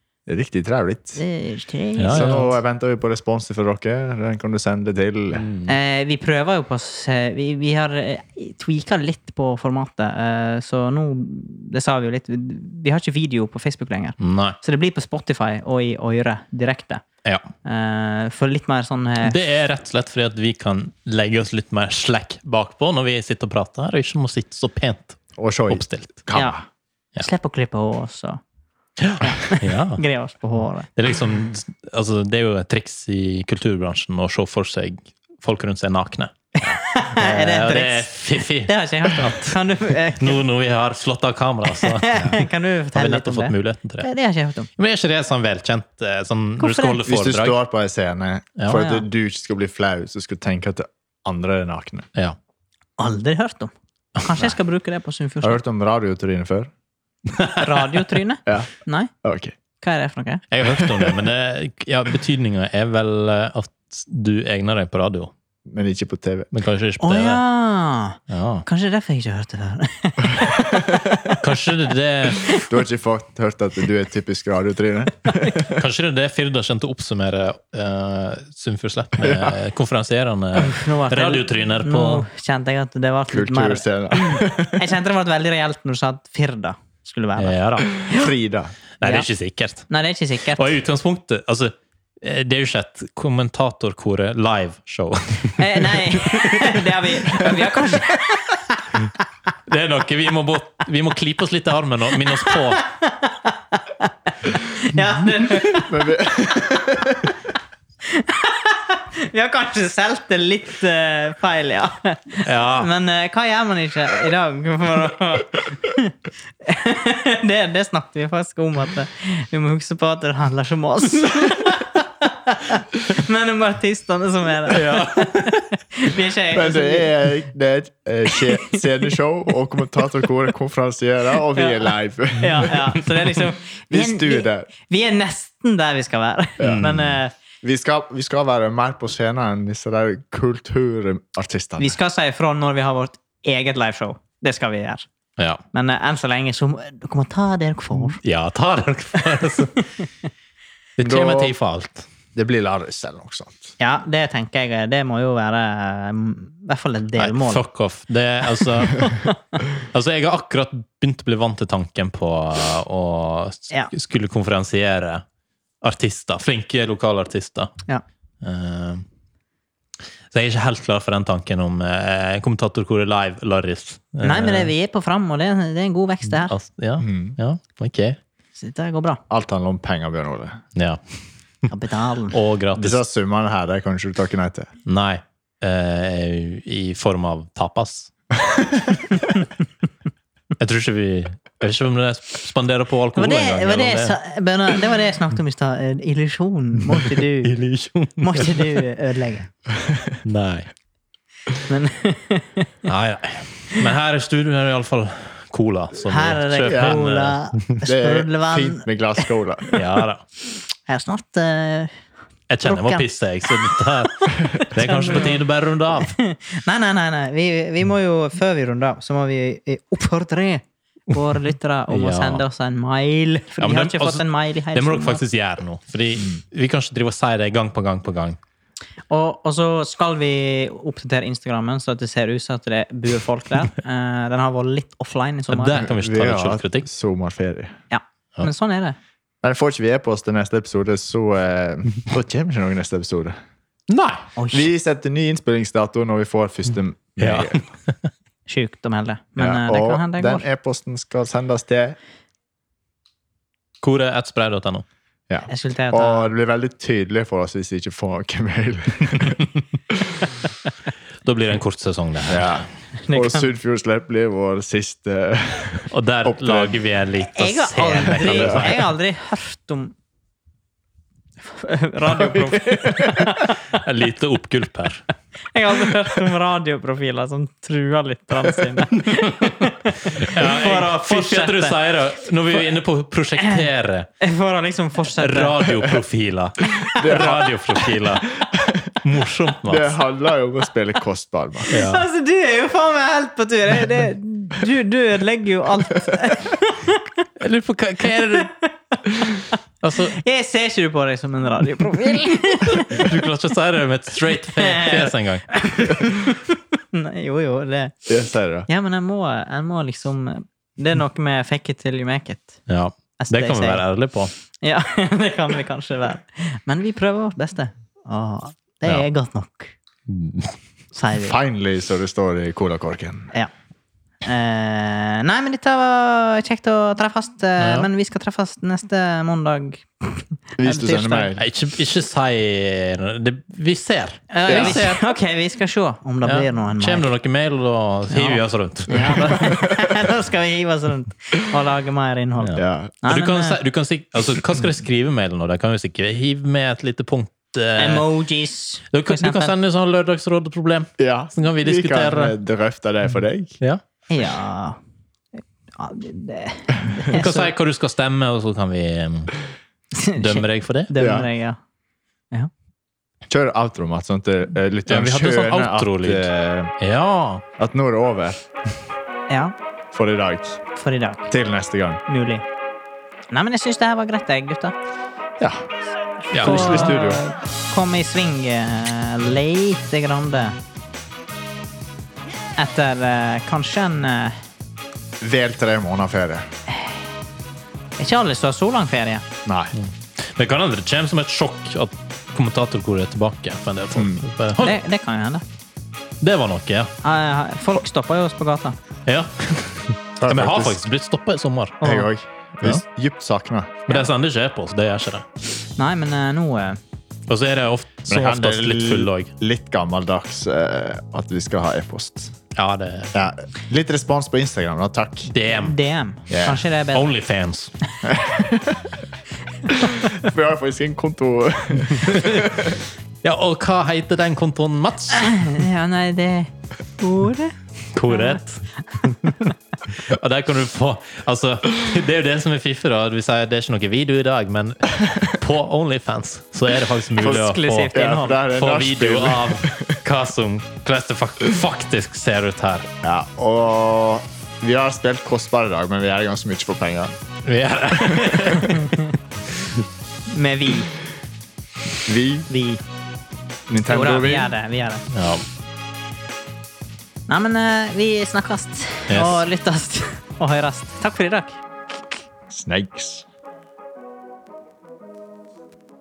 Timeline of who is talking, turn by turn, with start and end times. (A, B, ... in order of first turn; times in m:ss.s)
0:00.3-0:01.2 A
0:01.2-0:02.5 B
0:02.0-0:02.5 C
0:02.1-0:05.5 A
0:05.3-0:05.8 C
0:05.7-0:17.0 B
0:14.2-0:14.6 C
0:17.6-0:19.4 B
0:19.2-0:26.3 C
0:25.4-0:26.6 A
0:27.2-0:28.4 B
0:29.0-0:30.0 C
0:29.2-0:30.9 B
0:31.0-0:36.3 C
0:36.6-0:40.4 B
0:37.2-0:39.6 C
0:40.2-0:44.1 C
0:41.7-0:44.7 B
0:44.8-0:47.6 C
0:46.6-0:47.0 B
0:47.0-0:52.1 A
0:48.6-0:48.9 C
0:48.7-0:49.0 B
0:53.0-0:55.6 B
0:55.4-0:56.7 A
0:57.3-0:57.7 C
0:57.6-0:59.1 B
0:59.2-0:59.6 A
0:59.8-1:00.4 B
1:00.5-1:05.3 C
1:00.7-1:01.2 A
1:05.6-1:06.5 A
1:06.5-1:07.4 C
1:07.0-1:10.9 B
1:08.3-1:08.6 C
1:10.7-1:11.2 A
1:11.4-1:12.5 C
1:12.7-1:15.7 A
1:15.7-1:22.2 C
1:19.2-1:19.6 A
1:20.5-1:28.3 B
1:23.3-1:24.9 A
1:27.4-1:28.1 C
1:28.1-1:28.7 A
1:29.0-1:29.9 C
1:29.9-1:30.8 B
1:30.5-1:37.5 C
1:35.6-1:38.9 B
1:39.7-1:42.8 C
1:42.4-1:46.1 B
1:45.8-1:47.4 A
1:48.1-2:07.3 B
1:52.4-1:52.9 C
2:04.7-2:05.6 C
2:06.5-2:13.0 A
2:08.4-2:08.8 B
2:11.6-2:17.3 B
2:13.9-2:14.7 A
2:16.6-2:17.0 A
2:16.6-2:17.1 C
2:17.6-2:22.0 A
2:21.8-2:25.1 B
2:25.7-2:28.2 B
2:28.1-2:29.8 C
2:29.4-2:29.8 B
2:31.0-2:32.1 C
2:31.0-2:31.6 A
2:32.3-2:33.8 A
2:33.8-2:37.6 B
2:37.2-2:39.2 C
2:38.5-2:39.4 B
2:39.8-2:45.2 C
2:45.8-2:47.7 C
2:48.4-2:49.0 C
2:50.3-2:54.7 C
2:54.2-2:56.5 B
2:56.3-2:58.2 C
2:57.0-2:57.4 A
2:58.6-2:59.2 B
2:59.3-3:00.6 A
3:00.8-3:01.0 C
3:01.7-3:02.4 B
3:02.3-3:03.0 C
3:02.8-3:04.7 A
3:04.9-3:08.1 C
3:08.5-3:08.8 A
3:10.6-3:14.2 C
3:13.2-3:17.5 B
3:16.9-3:18.8 C
3:18.2-3:19.5 B
3:19.7-3:20.2 A
3:20.2-3:20.7 C
3:21.7-3:22.7 B
3:22.8-3:27.7 C
3:26.0-3:29.8 B
3:26.7-3:27.0 A
3:27.8-3:29.6 A
3:29.7-3:30.2 C
3:30.4-3:32.0 B
3:32.5-3:36.2 C
3:32.6-3:35.4 B
3:35.9-3:45.2 B
3:41.9-3:42.4 C
3:43.6-3:48.4 C
3:49.1-3:55.9 B
3:55.5-3:56.9 C
3:55.8-3:57.8 A
3:57.9-3:59.0 B
3:59.4-4:03.4 A
4:03.9-4:04.3 C
4:04.4-4:04.7 B
4:04.5-4:07.6 A
4:07.2-4:08.1 C
4:08.5-4:10.5 B
4:09.4-4:12.0 A
4:13.8-4:14.8 C
4:15.3-4:20.1 A
4:15.5-4:16.3 B
4:21.2-4:22.6 C
4:22.3-4:26.8 A
4:23.1-4:23.5 B
4:25.9-4:28.9 C
4:27.3-4:29.9 B
4:28.2-4:28.6 A
4:31.5-4:33.8 B
4:32.2-4:33.3 A
4:33.2-4:35.1 C
4:35.5-4:41.8 B
4:39.1-4:39.5 C
4:40.1-4:44.1 C
4:43.4-4:43.6 B
4:44.2-4:45.7 B
4:45.2-4:48.4 C
4:46.8-4:47.6 A
4:48.3-4:49.0 A
4:48.9-4:50.0 C
4:49.6-4:51.8 A
4:51.7-4:57.2 B
4:51.7-4:52.0 C
4:57.4-4:58.5 C
4:58.3-4:59.5 B
4:59.8-5:00.2 C
5:00.1-5:03.1 B
5:02.7-5:05.6 C
5:04.6-5:08.0 B
5:08.1-5:08.7 A
5:08.7-5:12.6 B
5:12.7-5:14.3 C
5:13.2-5:13.8 B
5:14.6-5:19.8 B
5:20.1-5:20.6 C
5:20.9-5:21.4 B
5:21.2-5:23.3 A
5:24.2-5:31.3 B
5:27.6-5:27.9 C
5:30.6-5:31.4 A
5:31.4-5:35.0 C
5:34.3-5:37.1 B
5:34.5-5:34.8 A
5:36.2-5:39.5 C
5:38.1-5:43.6 B
5:39.5-5:39.9 A
5:42.4-5:48.1 C
5:42.6-5:42.9 A
5:47.8-5:49.5 B
5:48.9-5:52.4 C
5:51.0-5:53.6 A
5:54.1-5:54.8 B
5:55.8-5:57.5 B
5:57.1-5:59.3 C
5:59.9-6:01.6 B
6:00.2-6:00.9 C
6:01.0-6:01.3 A
6:03.3-6:06.7 A
6:04.9-6:07.4 C
6:07.6-6:08.4 A
6:09.3-6:09.5 B
6:09.9-6:10.6 A
6:10.7-6:11.3 B
6:11.3-6:12.0 A
6:12.1-6:12.4 B
6:13.3-6:14.8 B
6:16.3-6:20.6 B
6:16.3-6:17.1 C
6:16.3-6:17.2 A
6:22.6-6:24.4 B
6:25.2-6:26.5 A
6:28.0-6:29.2 B
6:29.4-6:29.7 A
6:29.8-6:34.8 C
6:34.0-6:34.2 A
6:34.6-6:35.4 B
6:36.2-6:36.9 C
6:37.0-6:38.8 B
6:39.1-6:41.8 C
6:40.2-6:40.8 A
6:41.8-6:42.1 B
6:41.8-6:43.8 A
6:43.9-6:45.2 C
6:45.8-6:46.8 B
6:47.3-6:49.3 C
6:48.1-6:52.3 A
6:52.6-6:53.1 C
6:53.1-6:55.3 A
6:55.3-6:55.8 C
6:55.5-6:57.1 B
6:56.3-6:56.6 A
6:56.9-6:57.7 C
6:58.0-6:58.9 A
6:59.7-7:02.8 A
7:02.0-7:02.5 C
7:03.2-7:05.5 C
7:05.1-7:07.6 B
7:07.9-7:22.9 C
7:08.1-7:08.4 B
7:17.2-7:20.0 A
7:17.2-7:18.4 B
7:23.0-7:27.1 A
7:27.4-7:28.9 C
7:28.1-7:28.4 A
7:28.6-7:29.1 B
7:30.3-7:30.9 B
7:32.0-7:32.5 A
7:32.5-7:32.8 B
7:33.7-7:34.5 A
7:33.9-7:35.0 B
7:35.1-7:35.4 C
7:37.3-7:41.6 B
7:39.1-7:39.5 C
7:42.5-7:43.3 A